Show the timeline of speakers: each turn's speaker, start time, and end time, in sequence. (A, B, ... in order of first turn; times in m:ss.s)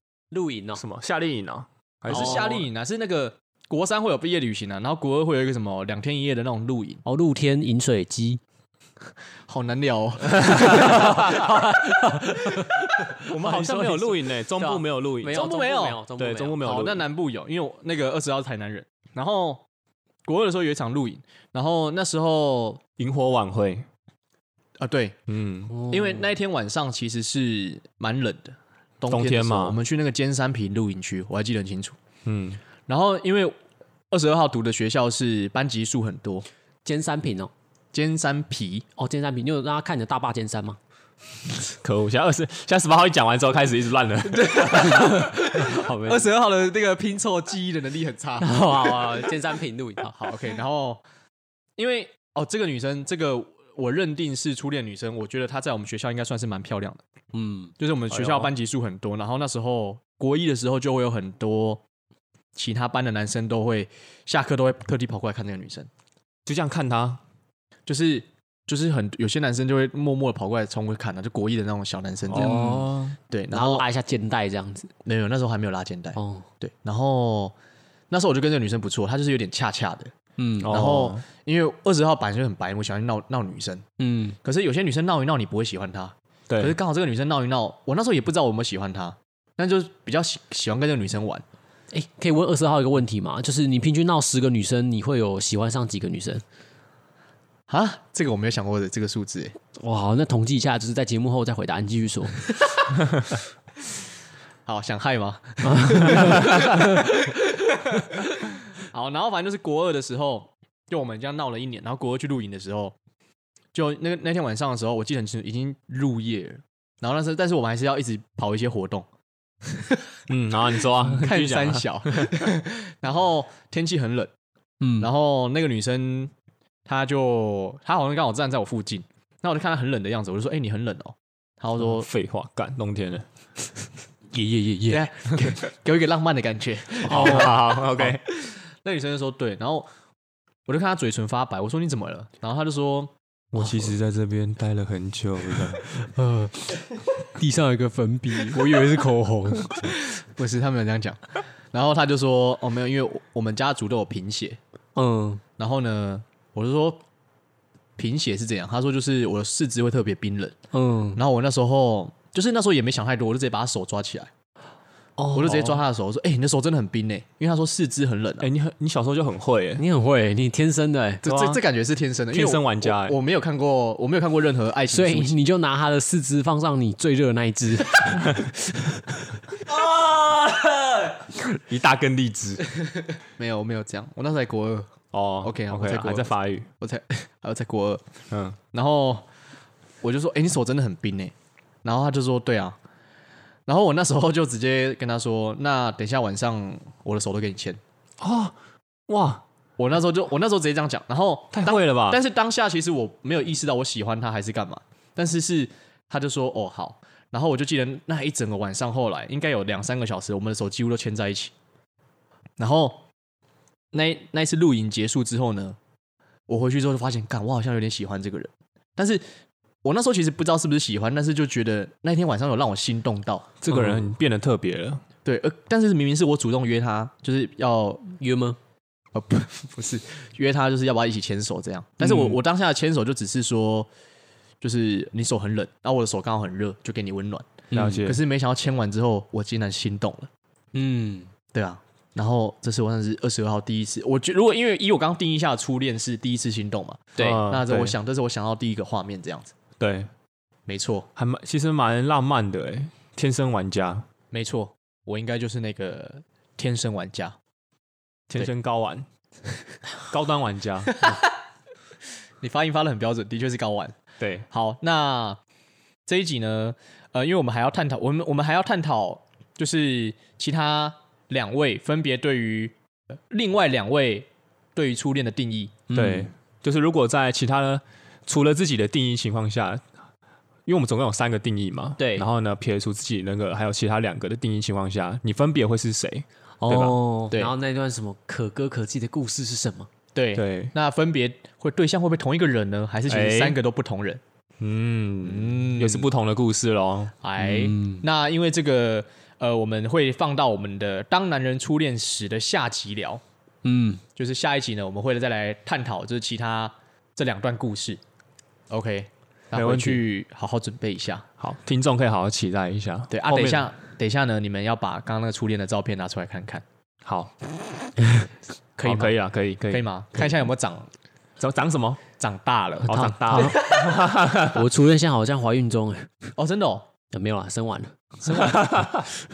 0:00.3-0:00.8 A
0:00.8-0:02.7 B
0:02.1-0:07.0 C
0:02.1-0:02.4 A
0:07.0-0:08.4 A
0:09.5-0:11.2 C
0:10.3-0:11.6 B
0:10.5-0:16.7 A
0:13.2-0:15.4 B
0:15.3-0:16.0 C
0:16.2-0:17.1 B
0:16.6-0:19.6 C
0:20.2-0:22.8 C
0:23.0-0:23.9 B
0:24.8-0:25.2 C
0:25.3-0:25.7 B
0:25.7-0:26.3 A
0:25.9-0:32.0 C
0:29.1-0:29.8 B
0:32.2-0:32.6 B
0:32.9-0:33.6 C
0:34.1-0:36.5 C
0:36.8-0:37.5 A
0:37.9-0:38.9 C
0:39.0-0:40.8 A
0:41.8-0:45.1 B
0:44.3-0:49.3 C
0:44.7-0:46.4 A
0:48.4-0:50.3 A
0:50.2-0:51.0 C
0:51.8-0:57.0 C
0:57.3-0:58.5 A
0:57.8-1:01.8 C
1:02.6-1:05.9 C
1:06.5-1:07.2 B
1:07.9-1:12.8 C
1:12.3-1:13.2 B
1:12.3-1:13.0 A
1:13.3-1:13.8 C
1:13.5-1:14.9 A
1:15.0-1:17.5 C
1:16.2-1:16.5 A
1:18.1-1:20.1 C
1:20.4-1:20.8 A
1:20.6-1:21.2 B
1:20.7-1:23.8 C
1:24.0-1:24.4 A
1:24.4-1:31.4 C
1:26.5-1:26.8 B
1:31.9-1:36.4 A
1:37.7-1:39.6 C
1:39.8-1:42.5 A
1:44.7-1:53.0 C
1:45.6-1:47.1 A
1:53.7-1:59.1 C
1:59.7-2:00.0 C
2:00.3-2:02.4 B
2:01.0-2:04.3 C
2:04.8-2:05.1 A
2:05.0-2:06.3 C
2:06.9-2:12.1 C
2:11.8-2:13.3 B
2:14.3-2:15.1 A
2:14.9-2:19.9 C
2:17.0-2:18.2 B
2:17.1-2:17.5 A
2:20.7-2:23.1 C
2:23.5-2:25.8 B
2:25.8-2:29.9 A
2:28.5-2:29.1 C
2:29.8-2:34.6 C
2:35.0-2:35.4 A
2:35.6-2:37.0 C
2:38.0-2:40.6 C
2:40.7-2:41.2 A
2:41.2-2:44.3 C
2:45.2-2:45.8 A
2:45.3-2:48.5 C
2:48.4-2:49.8 B
2:49.8-2:51.2 A
2:51.2-2:55.4 C
2:51.2-2:51.6 B
2:52.3-2:53.2 B
2:54.9-2:59.2 A
3:01.5-3:02.6 B
3:03.4-3:08.0 C
3:05.1-3:06.7 B
3:08.3-3:08.6 B
3:08.7-3:09.2 C
3:10.0-3:11.3 C
3:11.8-3:12.8 C
3:13.7-3:17.8 C
3:18.2-3:18.6 B
3:19.1-3:19.4 B
3:19.8-3:31.5 C
3:21.5-3:22.2 B
3:32.6-3:33.0 C
3:33.9-3:35.8 C
3:36.5-3:39.2 C
3:39.8-3:44.0 C
3:43.6-3:45.0 B
3:45.2-3:48.1 C
3:48.2-3:48.6 A
3:49.1-3:53.9 C
3:52.0-3:52.4 A
3:54.6-4:00.3 C
3:57.7-3:58.1 A
3:57.7-3:58.2 B
4:00.7-4:01.3 A
4:01.5-4:09.5 C
4:07.2-4:08.0 B
4:09.8-4:10.1 B
4:10.7-4:11.1 C
4:11.2-4:14.1 B
4:14.3-4:17.4 C
4:18.3-4:19.0 B
4:20.0-4:21.1 B
4:20.9-4:21.4 C
4:22.4-4:24.0 C
4:24.2-4:24.5 B
4:24.5-4:25.4 C
4:26.1-4:32.7 C
4:33.3-4:35.8 C
4:35.9-4:36.3 A
4:35.9-4:39.8 B
4:40.7-4:47.0 B
4:42.0-4:42.3 A
4:46.6-4:49.9 A
4:50.2-4:54.2 C
4:50.3-4:50.7 B
4:53.1-4:53.6 B
4:54.6-4:57.1 B
4:55.2-4:56.1 C
4:57.2-5:03.2 C
4:57.4-4:58.0 A
5:03.6-5:04.0 A
5:04.2-5:08.0 C
5:08.7-5:11.3 C
5:09.5-5:10.0 B
5:11.4-5:13.7 B
5:13.1-5:16.6 C
5:17.0-5:17.4 B
5:18.8-5:20.9 C
5:18.8-5:20.3 B
5:21.4-5:22.0 B
5:22.2-5:24.0 C
5:22.9-5:24.7 B
5:22.9-5:26.3 A
5:26.4-5:26.9 C
5:27.1-5:28.6 A
5:28.2-5:28.7 C
5:28.4-5:29.1 B